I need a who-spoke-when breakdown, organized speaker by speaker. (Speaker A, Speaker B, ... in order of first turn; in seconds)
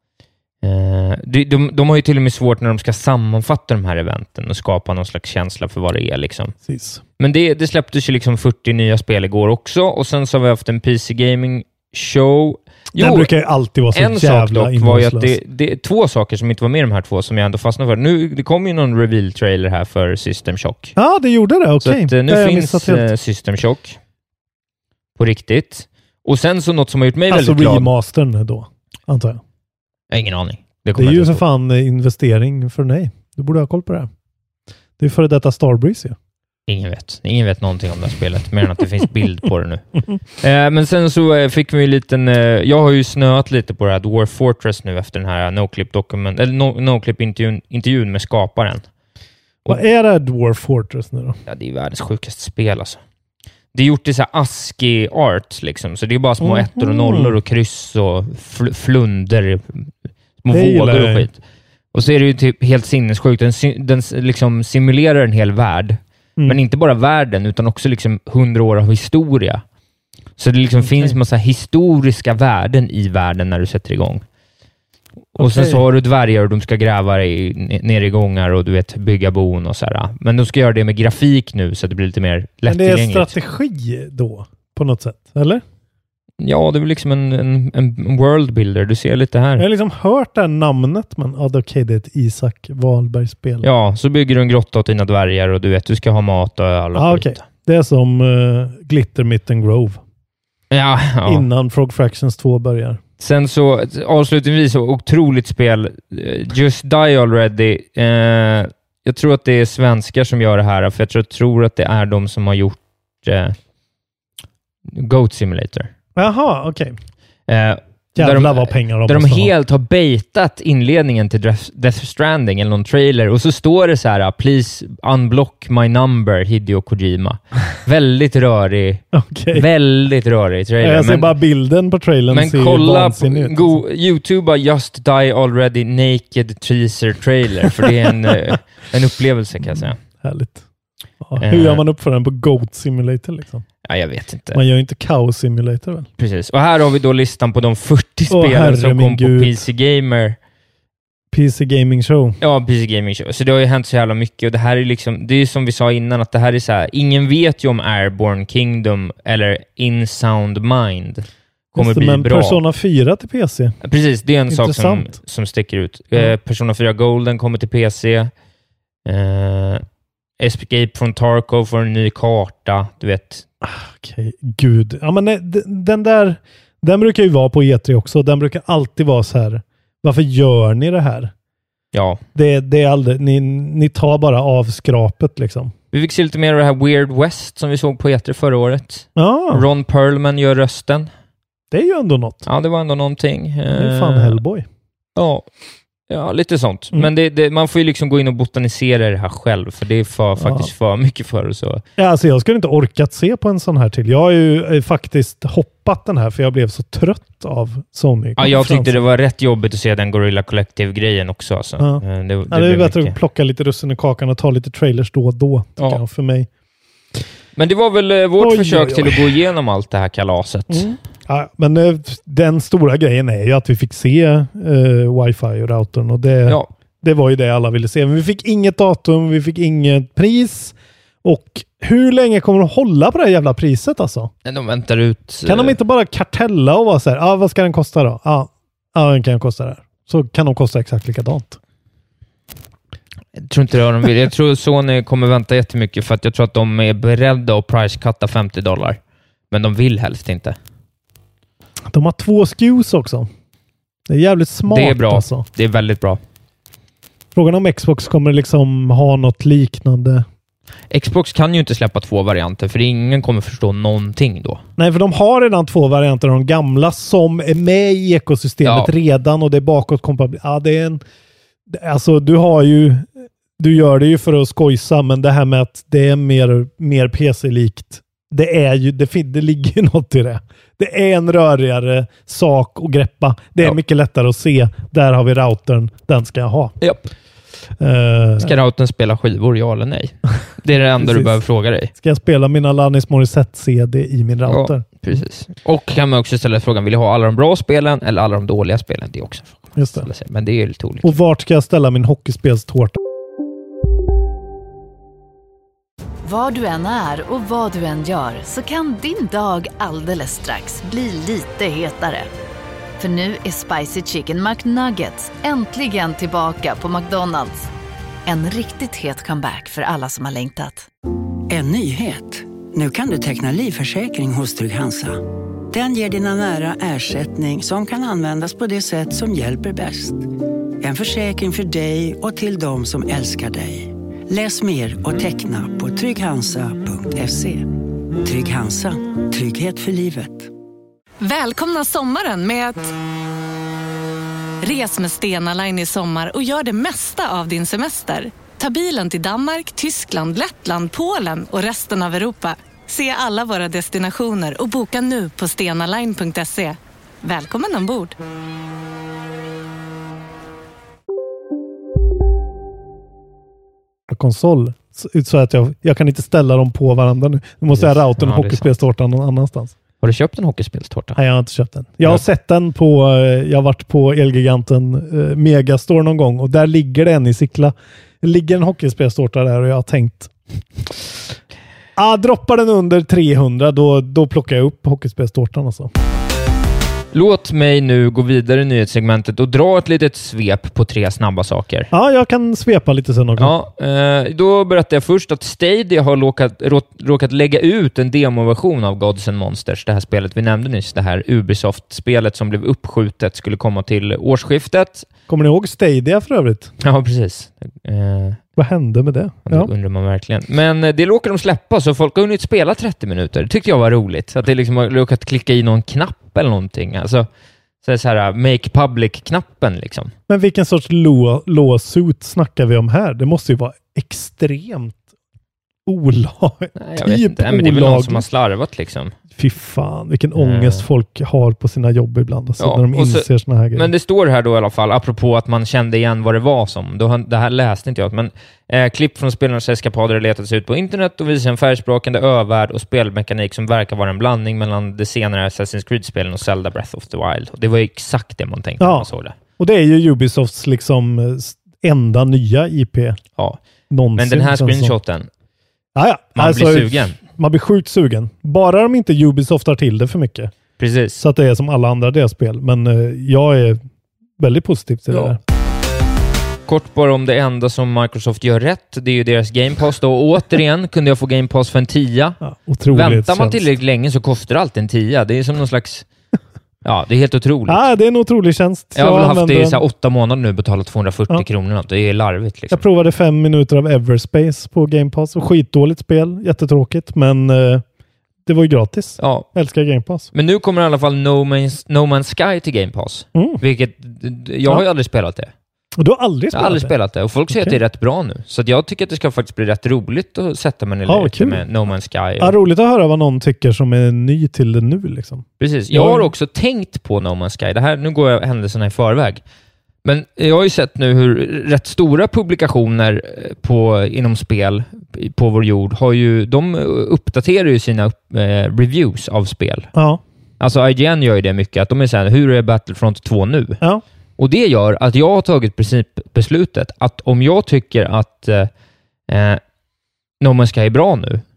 Speaker A: 0.6-6.5, 7.2-13.3, 13.9-20.9, 21.8-24.0, 25.2-27.9, 30.1-31.4, 36.7-39.8, 40.4-48.8, 51.5-53.0, 53.7-59.9, 60.4-61.4, 61.9-69.6, 70.4-74.2, 75.3-83.3, 86.4-89.7, 93.6-97.4, 100.7-101.5, 103.2-113.5, 114.9-115.9, 117.5-131.3, 132.3-140.0, 141.4-141.8, 143.8-144.6, 146.2-150.4, 152.4-162.6, 163.8-168.3, 169.1-169.8, 170.4-173.4, 181.9-182.2, 185.9-191.1, 192.4-194.4, 195.2-195.4, 196.1-201.8, 208.4-213.1, 217.6-220.9, 234.4-235.8, 243.3-249.0, 249.5-250.6, 254.7-256.2, 260.9-264.6, 268.6-268.9, 286.8-287.1, 288.4-291.9, 294.5-301.1, 367.7-368.7, 370.0-371.2, 387.1-391.9, 393.4-405.1, 406.8-408.4, 409.5-417.3, 417.8-420.1, 426.8-429.1, 430.4-430.8, 432.6-449.4, 454.1-455.3, 456.4-457.2, 460.8-461.2, 466.7-476.0, 476.8-477.9, 478.9-482.8, 489.2-489.5, 490.3-495.5, 496.5-502.6, 505.6-509.4, 510.0-519.9, 520.6-523.8, 524.4-528.7, 529.3-529.6, 530.4-531.4
Speaker B: 6.7-7.0, 12.9-15.4, 20.9-23.1, 27.3-29.4, 30.9-34.1, 35.0-36.1, 49.7-51.4, 56.4-57.4, 60.5-61.3, 70.8-71.2, 75.4-75.8, 82.7-85.6, 89.6-93.7, 96.9-100.0, 101.2-103.0, 116.2-117.0, 118.1-119.5, 129.1-129.7, 130.8-133.8, 137.9-138.3, 139.7-140.6, 141.2-143.6, 144.5-146.1, 148.3-149.6, 151.3-152.4, 161.7-163.8, 164.5-165.1, 173.6-181.3, 182.3-185.7, 189.2-189.6, 191.7-192.4, 193.7-194.6, 200.4-200.7, 202.0-209.0, 211.8-216.5, 218.4-219.3, 220.7-234.3, 235.4-241.6, 251.9-253.3, 254.1-255.4, 257.3-260.2, 264.8-271.0, 271.7-286.7, 287.8-288.5, 291.0-291.4, 291.9-294.8, 299.8-300.1, 301.0-303.0, 364.1-369.7, 371.1-380.3, 381.9-385.9, 391.9-393.5, 405.3-406.7, 408.6-409.7, 420.3-425.0, 425.9-428.2, 429.4-433.9, 448.8-453.2, 453.9-454.9, 455.9-460.5, 461.1-463.8, 464.4-465.4, 472.4-473.6, 477.7-479.8, 482.7-487.8, 488.4-490.3, 493.3-493.6, 496.0-496.9, 497.5-497.8, 501.1-501.6, 502.4-506.3, 519.9-520.2
Speaker C: 306.2-312.3, 313.0-317.7, 318.2-320.9
Speaker D: 321.5-330.3, 330.8-340.5
Speaker E: 341.2-342.9, 344.6-358.1